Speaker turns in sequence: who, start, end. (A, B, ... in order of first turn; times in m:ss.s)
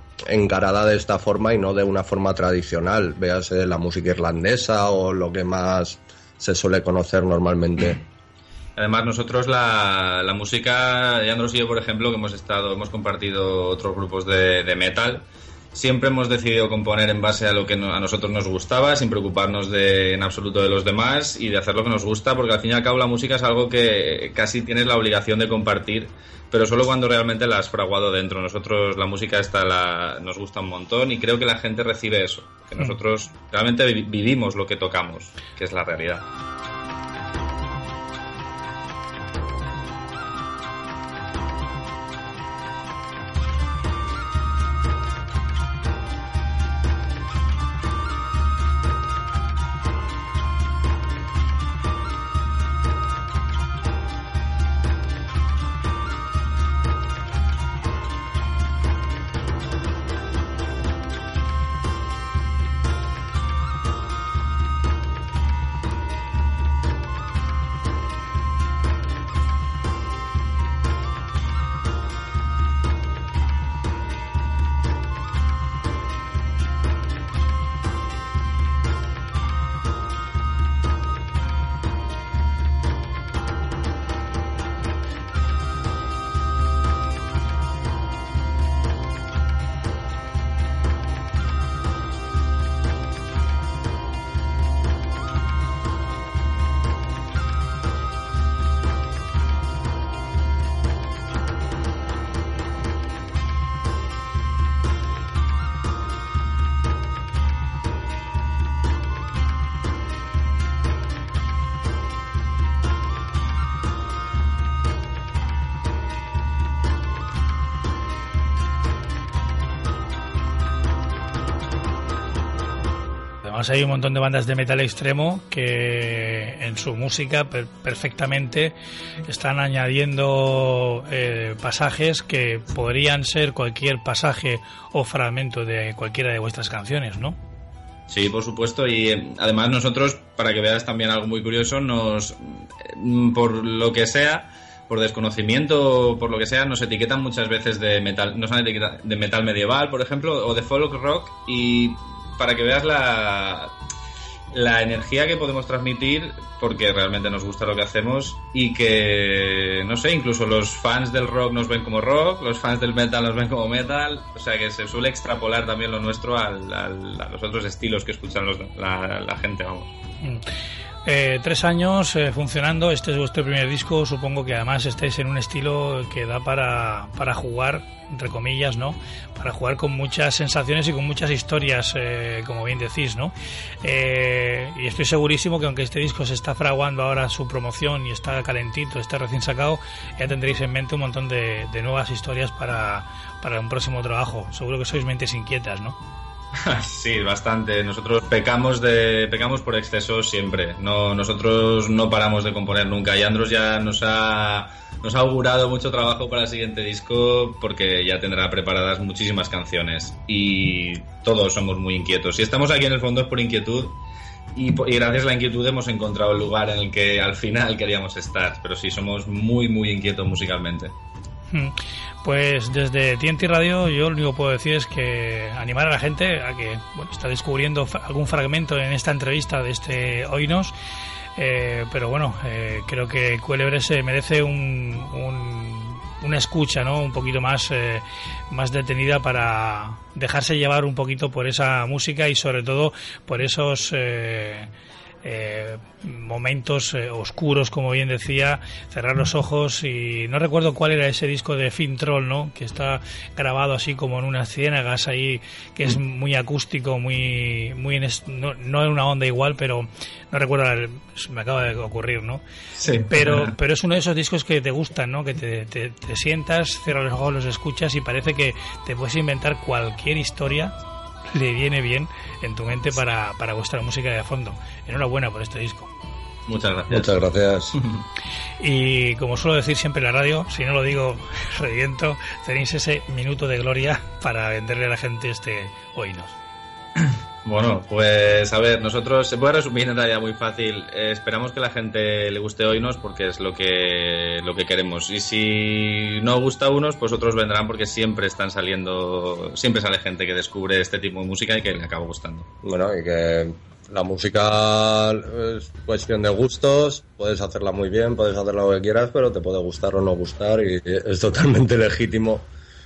0:00.3-0:08.0 A
0:08.8-0:36.2 B
2:03.4-2:08.7 C
2:09.2-2:17.4 C
2:18.1-2:33.7 B
2:34.5-2:49.9 B
2:51.0-3:16.0 C
3:16.6-3:34.0 B
3:34.6-3:40.9 B
3:41.5-3:50.7 C
3:51.4-4:04.7 C
4:05.2-4:22.4 C
4:22.8-4:23.5 B
4:23.0-4:30.8 C
4:31.3-4:35.9 C
4:36.5-4:37.2 B
4:36.9-4:37.8 A
4:37.7-4:38.0 B
4:38.6-4:46.4 C
4:47.0-5:02.5 B
5:02.6-5:12.5 A